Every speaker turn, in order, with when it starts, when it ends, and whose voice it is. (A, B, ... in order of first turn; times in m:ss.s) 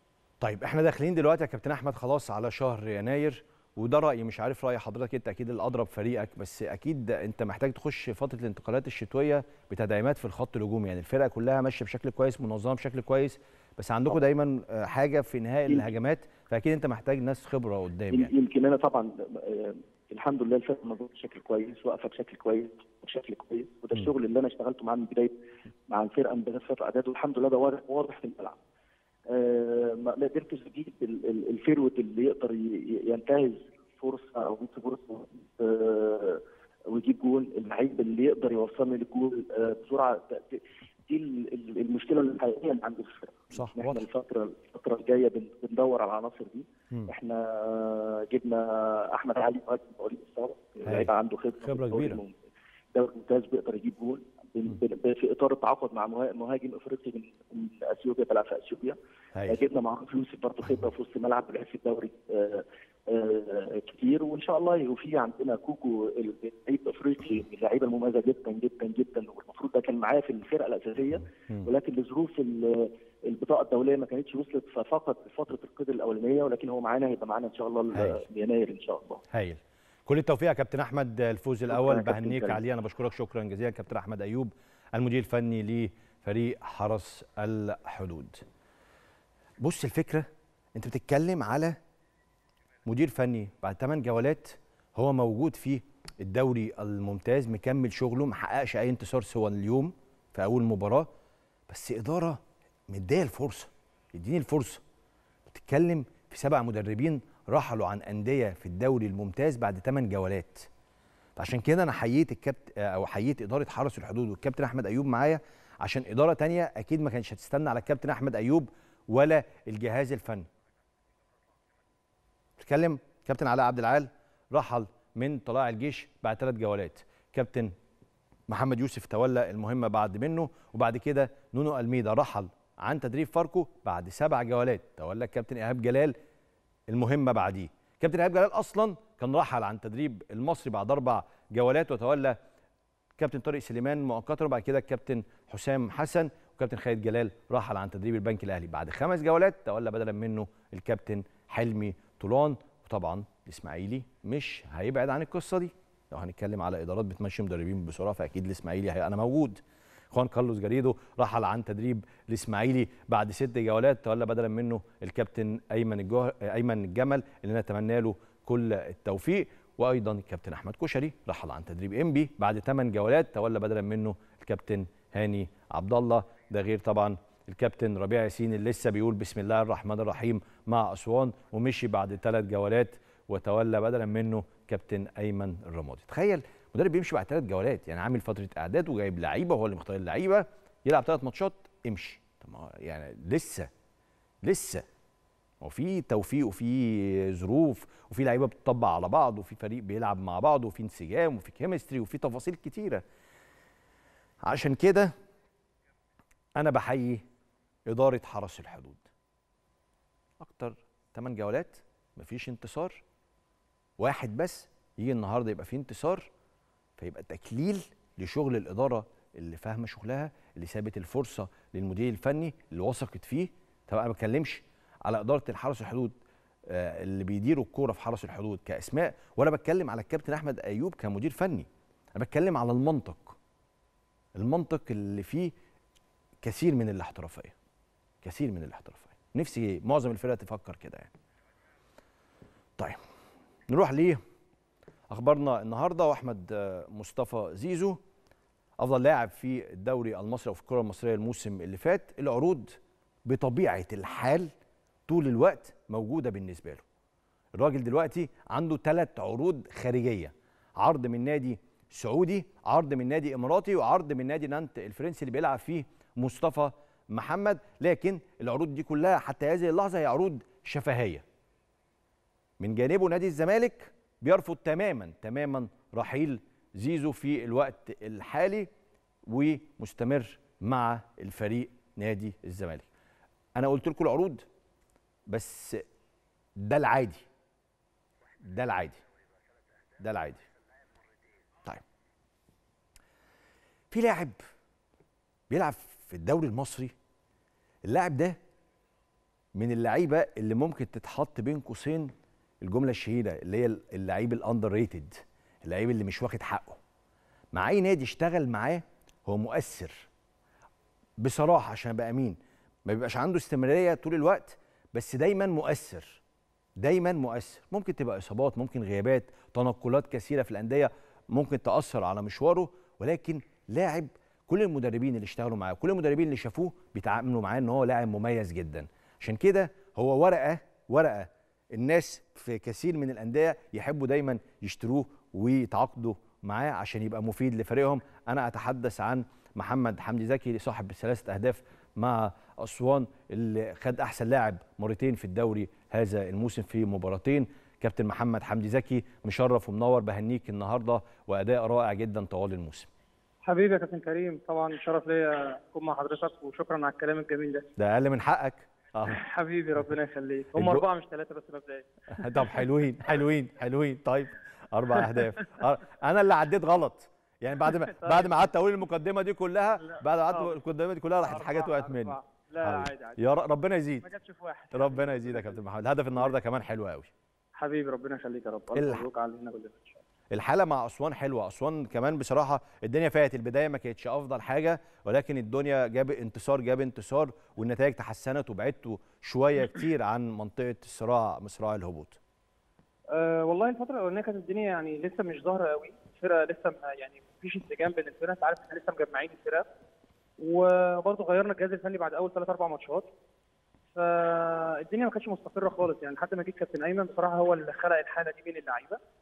0:00.4-0:18.3 A
0:18.1-0:25.4 B
0:25.9-0:28.6 B
0:29.3-0:52.3 B
0:43.5-0:44.0 A
0:50.8-0:52.2 A
0:52.9-0:59.0 B
0:59.3-0:59.6 A
0:59.5-1:19.2 B
1:17.9-1:18.2 A
1:19.3-1:28.4 A
1:21.7-1:22.6 B
1:29.6-1:31.8 A
1:32.8-1:41.1 A
1:41.7-1:44.8 A
1:45.5-1:50.7 A
1:51.4-2:00.5 A
2:02.6-2:07.7 A
2:08.5-2:16.1 A
2:16.9-2:22.4 A
2:23.2-2:39.6 A
2:40.1-3:13.7 A
3:14.4-3:14.8 A
3:15.6-3:23.0 A
3:24.4-3:25.1 A
3:26.6-3:27.2 A
3:27.9-3:29.0 A
3:30.4-3:33.0 A
3:34.0-3:36.3 A
3:37.0-3:46.1 A
3:46.7-3:53.4 A
3:54.4-3:55.5 A
3:56.4-3:57.5 A
3:58.2-4:01.1 A
4:03.7-4:04.2 A
4:05.1-4:08.0 A
4:08.8-4:14.5 A
4:15.1-4:16.8 A
4:17.6-4:31.2 A
4:32.6-4:38.7 A
4:39.3-4:42.9 A
4:43.6-4:44.4 A
4:45.3-4:45.8 A
4:46.6-4:47.2 A
4:48.4-4:49.0 A
4:50.0-4:50.4 A
4:53.9-4:54.4 A
4:55.5-4:56.9 A
4:57.9-4:58.4 A
4:59.5-5:06.8 A
5:07.5-5:10.1 A
5:11.2-5:16.2 A
5:16.8-5:52.9 A
5:53.4-5:57.6 C
5:57.8-5:59.2 A
5:59.1-6:02.5 C
6:00.5-6:00.9 A
6:02.1-6:14.1 A
6:07.8-6:08.5 C
6:09.8-6:10.6 C
6:11.2-6:13.2 C
6:14.0-6:15.6 C
6:14.7-6:17.1 A
6:17.6-6:20.0 C
6:18.7-6:19.1 A
6:20.3-6:32.2 A
6:33.1-6:39.6 C
6:40.4-6:43.1 C
6:43.9-6:49.0 C